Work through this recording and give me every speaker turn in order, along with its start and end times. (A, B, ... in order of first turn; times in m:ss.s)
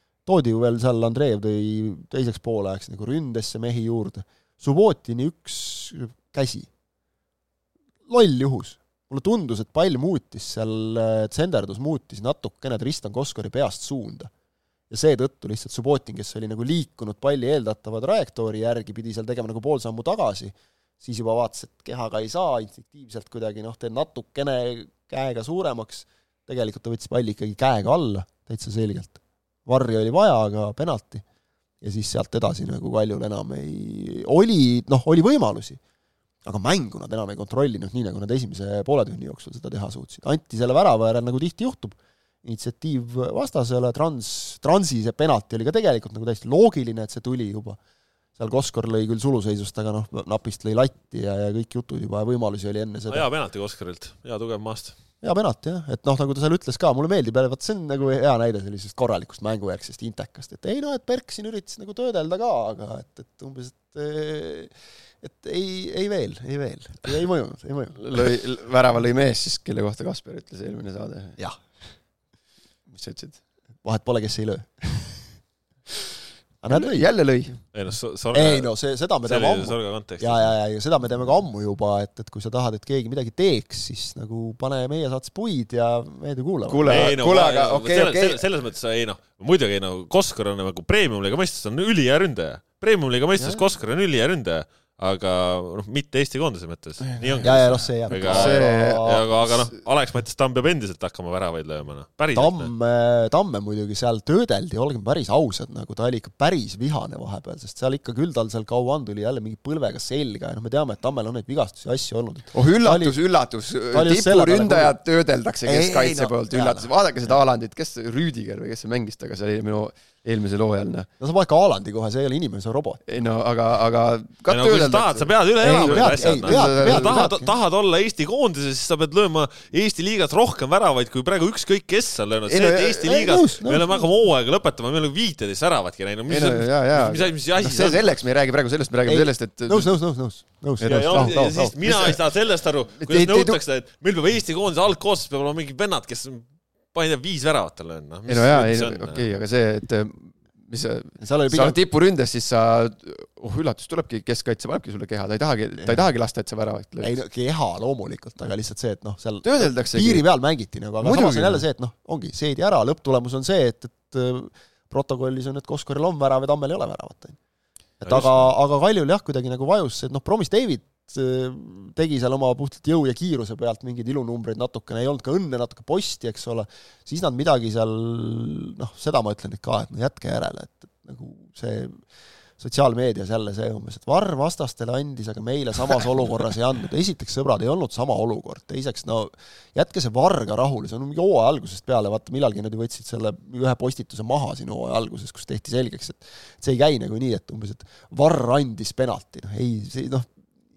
0:00.2-0:06.7 A
0:08.1-0:14.3 A
0:14.9-0:31.2 A
0:31.8-0:35.8 A
0:36.4-0:47.8 A
0:48.4-0:53.2 A
0:53.1-0:55.0 B
0:55.2-1:08.0 A
1:08.0-1:11.4 C
1:12.9-1:13.4 C
1:13.8-1:15.4 A
1:16.6-1:17.1 A
1:16.7-1:17.6 C
1:17.7-1:18.7 B
1:18.3-1:27.2 A
1:19.2-1:20.5 B
1:26.7-1:28.4 C
1:26.8-1:42.7 B
1:33.4-1:33.6 A
1:37.2-1:37.5 C
1:37.4-1:39.2 A
1:38.2-1:39.3 C
1:42.3-1:53.1 A
1:52.5-2:01.1 C
1:53.9-1:55.0 A
1:55.6-1:57.3 A
2:01.2-2:03.0 A
2:03.0-2:07.3 C
2:04.5-2:18.0 B
2:05.6-2:07.5 A
2:12.5-2:13.3 C
2:13.0-2:14.0 A
2:16.3-2:20.0 C
2:19.1-2:22.2 A
2:20.8-2:22.2 C
2:20.8-2:29.2 B
2:23.0-2:23.6 C
2:28.3-2:37.1 C
2:31.2-2:31.8 A
2:35.8-2:36.1 A
2:37.0-2:47.4 A
2:39.4-2:40.2 C
2:41.0-2:41.6 C
2:48.0-3:02.0 A
2:48.0-2:48.5 B
3:02.6-3:20.3 A